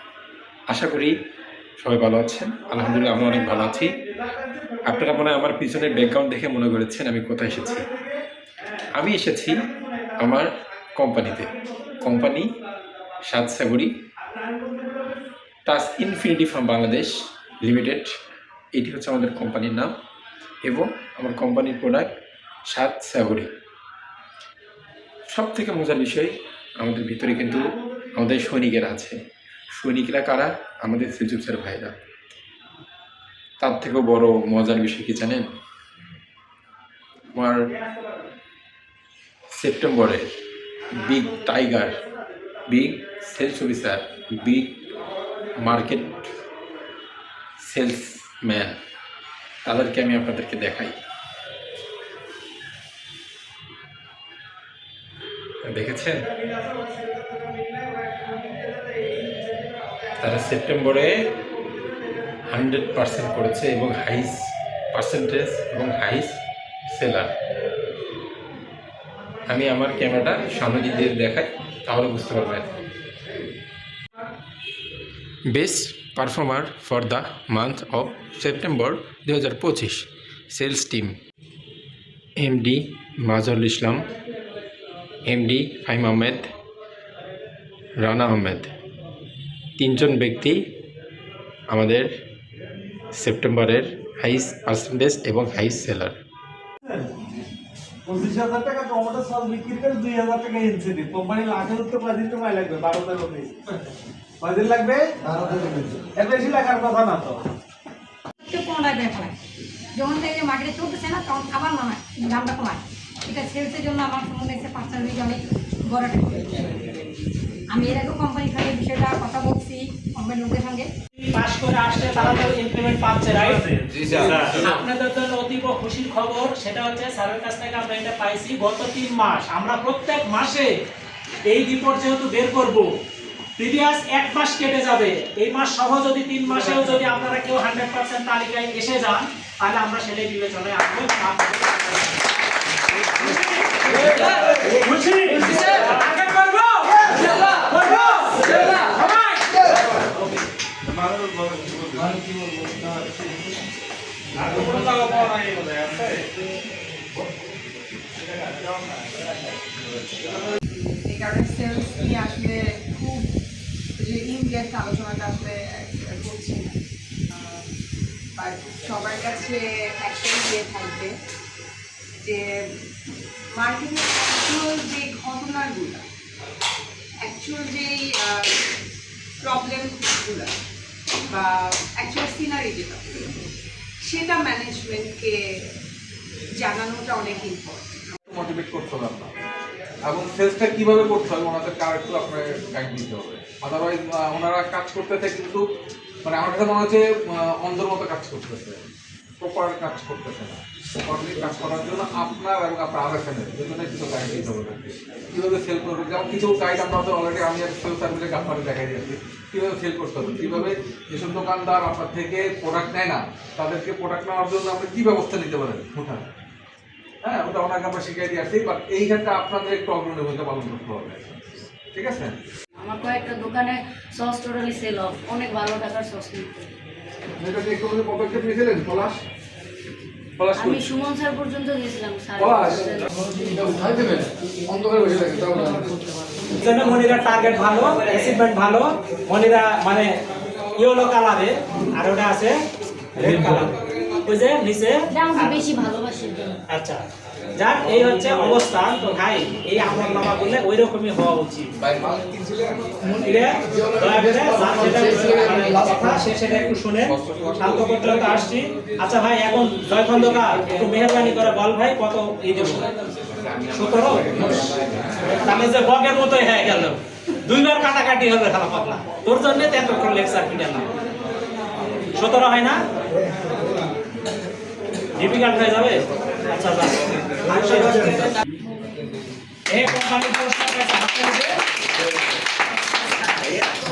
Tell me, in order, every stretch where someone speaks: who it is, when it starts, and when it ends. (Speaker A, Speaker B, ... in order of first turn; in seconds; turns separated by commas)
Speaker A: 0.7-1.1, Speaker A: 1.8-4.0, Speaker B: 4.2-4.9, Speaker A: 4.8-7.8, Speaker B: 7.9-8.1, Speaker A: 8.9-9.7, Speaker A: 10.2-12.5, Speaker A: 13.3-13.9, Speaker B: 14.4-14.8, Speaker A: 15.7-18.1, Speaker A: 18.8-19.9, Speaker A: 20.6-22.1, Speaker A: 22.7-23.5, Speaker A: 25.3-29.1, Speaker A: 29.7-32.0, Speaker A: 33.6-35.5, Speaker A: 39.5-40.3, Speaker A: 40.9-42.0, Speaker A: 42.7-44.9, Speaker A: 45.6-46.2, Speaker A: 47.6-48.8, Speaker A: 49.6-51.0, Speaker A: 55.7-56.3, Speaker B: 57.5-59.2, Speaker A: 60.2-61.2, Speaker A: 62.5-66.4, Speaker A: 66.9-67.3, Speaker A: 69.5-72.7, Speaker A: 75.5-81.1, Speaker A: 82.4-84.1, Speaker A: 85.2-86.5, Speaker A: 88.0-88.7, Speaker A: 89.8-90.6, Speaker A: 91.7-92.1, Speaker A: 93.1-96.1, Speaker B: 98.0-103.5, Speaker B: 104.4-107.4, Speaker C: 108.4-109.3, Speaker C: 109.9-116.7, Speaker C: 117.7-120.9, Speaker D: 121.2-130.7, Speaker D: 131.5-132.9, Speaker D: 133.6-142.3, Speaker D: 143.0-149.7, Speaker B: 150.9-152.2, Speaker B: 154.5-155.2, Speaker D: 154.6-155.3, Speaker E: 160.7-163.3, Speaker E: 164.0-166.8, Speaker E: 167.3-167.7, Speaker E: 168.3-171.2, Speaker E: 172.2-172.7, Speaker E: 173.5-176.0, Speaker E: 177.2-178.6, Speaker E: 179.4-180.5, Speaker E: 181.3-183.4, Speaker E: 184.0-185.7, Speaker E: 186.5-188.1, Speaker F: 188.3-189.3, Speaker F: 190.0-195.7, Speaker F: 196.2-198.9, Speaker F: 199.4-216.2, Speaker F: 217.2-221.2, Speaker F: 221.9-222.4, Speaker G: 222.7-226.7, Speaker F: 227.4-229.2, Speaker F: 230.4-230.9, Speaker G: 230.5-233.1, Speaker F: 232.4-232.8, Speaker F: 233.5-235.9, Speaker D: 236.5-240.2, Speaker D: 240.8-242.6, Speaker D: 243.1-245.8, Speaker G: 245.1-246.5, Speaker D: 246.7-247.1, Speaker D: 247.6-251.7, Speaker F: 251.9-252.7, Speaker D: 253.1-262.9, Speaker F: 257.0-258.1, Speaker D: 263.7-264.8, Speaker D: 265.3-270.9, Speaker D: 272.1-272.8, Speaker D: 275.2-278.4, Speaker D: 279.7-281.6